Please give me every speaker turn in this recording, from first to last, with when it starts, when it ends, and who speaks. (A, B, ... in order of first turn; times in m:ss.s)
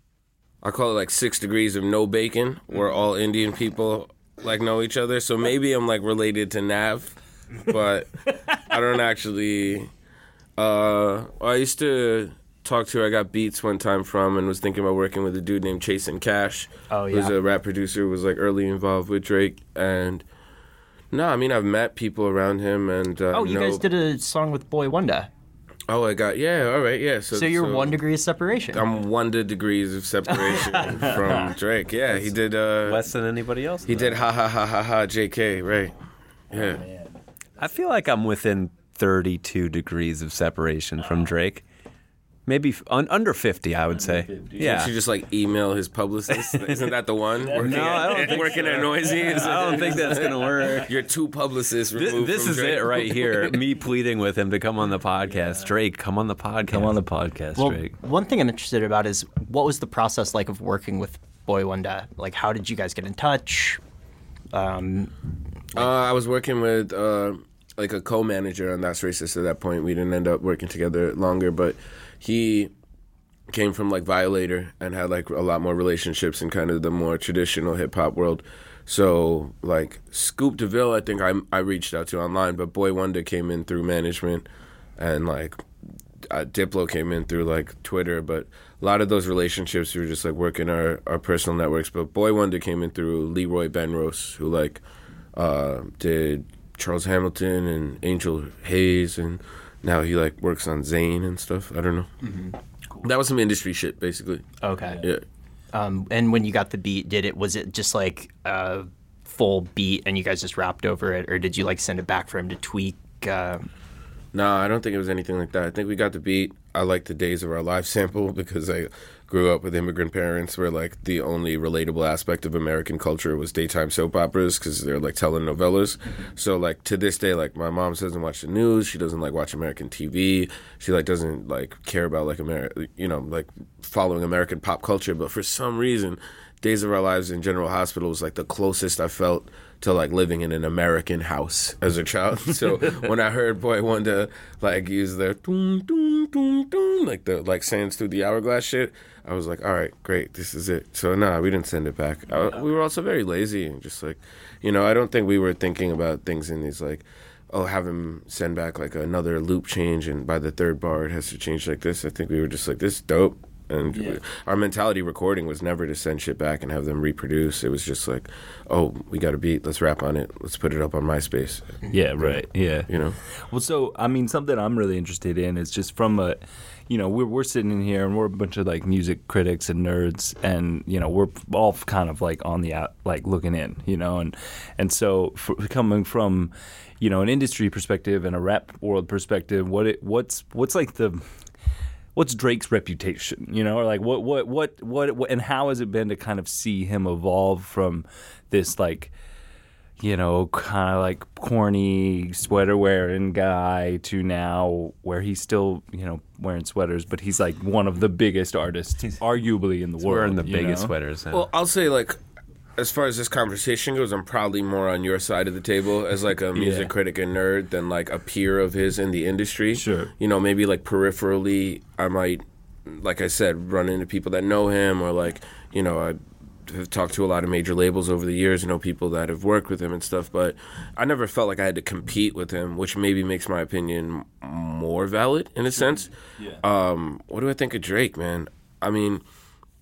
0:00.6-0:09.9 A
0:10.6-0:20.2 A
0:16.9-0:17.3 B
0:21.1-0:23.8 A
0:23.3-0:25.3 B
0:25.9-0:28.0 A
0:27.3-0:28.8 B
0:28.7-0:33.1 A
0:30.5-0:30.7 B
0:32.8-0:34.2 C
0:33.9-0:35.9 A
0:36.5-0:36.8 A
0:36.5-0:37.1 D
0:37.6-0:41.6 C
0:42.5-0:44.9 C
0:44.0-0:44.6 D
0:44.6-0:53.6 A
0:46.5-0:46.7 C
0:47.4-0:49.8 D
0:47.5-0:50.9 C
0:52.0-0:57.0 C
0:56.7-0:58.0 D
0:57.6-1:03.8 B
1:04.5-1:05.1 B
1:05.8-1:12.7 A
1:13.5-1:24.5 A
1:25.0-1:25.6 A
1:26.3-1:34.8 A
1:35.4-1:42.4 A
1:43.0-1:44.5 A
1:44.6-1:45.0 B
1:45.7-1:53.6 B
1:54.3-2:53.2 A
2:43.9-2:44.2 D
2:51.9-3:11.2 D
3:12.1-3:19.1 D
3:20.0-3:30.9 D
3:30.0-3:31.5 C
3:31.3-3:32.2 A
3:32.8-3:59.2 A
3:36.6-3:36.9 D
3:39.7-3:40.1 D